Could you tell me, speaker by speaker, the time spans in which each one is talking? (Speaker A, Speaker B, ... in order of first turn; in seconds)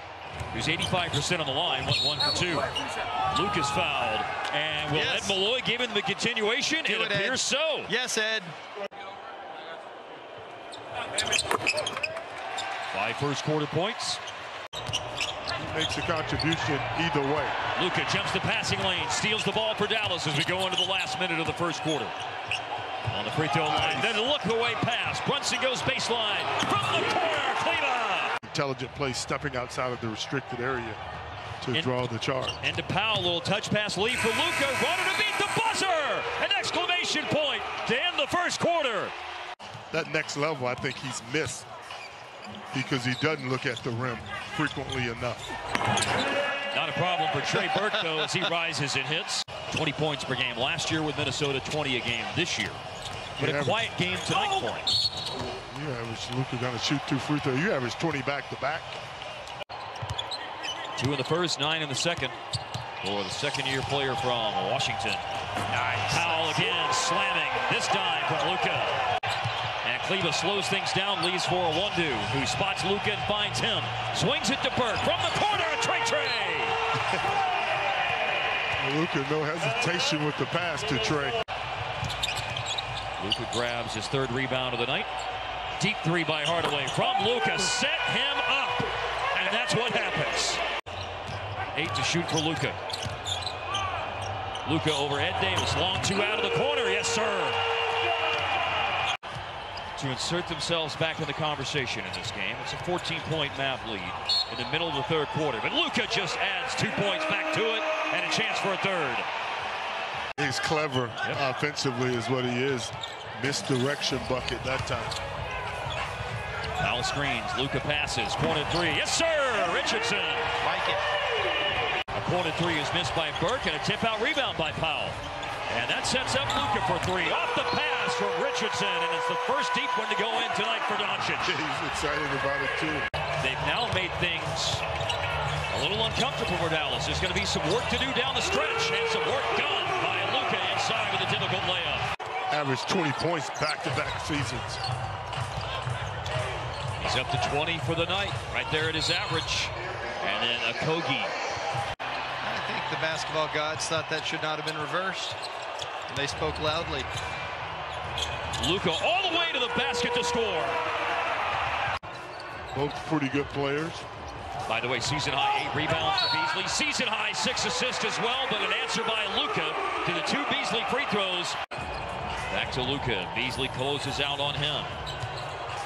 Speaker A: 0.5-2.7, 3.3-7.9, 12.9-14.2, 17.7-22.1, 23.1-28.3, 32.6-39.1, 46.7-52.8, 53.4-54.9, 61.0-62.4, 63.0-65.2, 66.0-69.0, 69.8-76.8, 83.2-85.1, 85.8-90.6, 91.7-92.8, 94.6-97.6, 99.9-109.2, 116.8-120.5, 122.1-125.2, 125.7-131.5, 133.4-134.8, 135.7-142.0, 147.0-151.3, 158.6-160.8, 164.7-171.6, 172.5-174.9
Speaker B: 4.9-5.4, 6.8-8.5, 65.7-66.4, 120.6-121.0, 152.4-155.4, 156.1-157.1
Speaker C: 15.6-17.5, 23.7-24.2, 28.4-31.0, 31.6-32.6, 39.9-41.7, 42.7-45.5, 53.4-53.9, 55.7-59.0, 78.8-81.4, 110.3-115.2, 131.4-133.1, 142.5-144.8, 162.7-164.1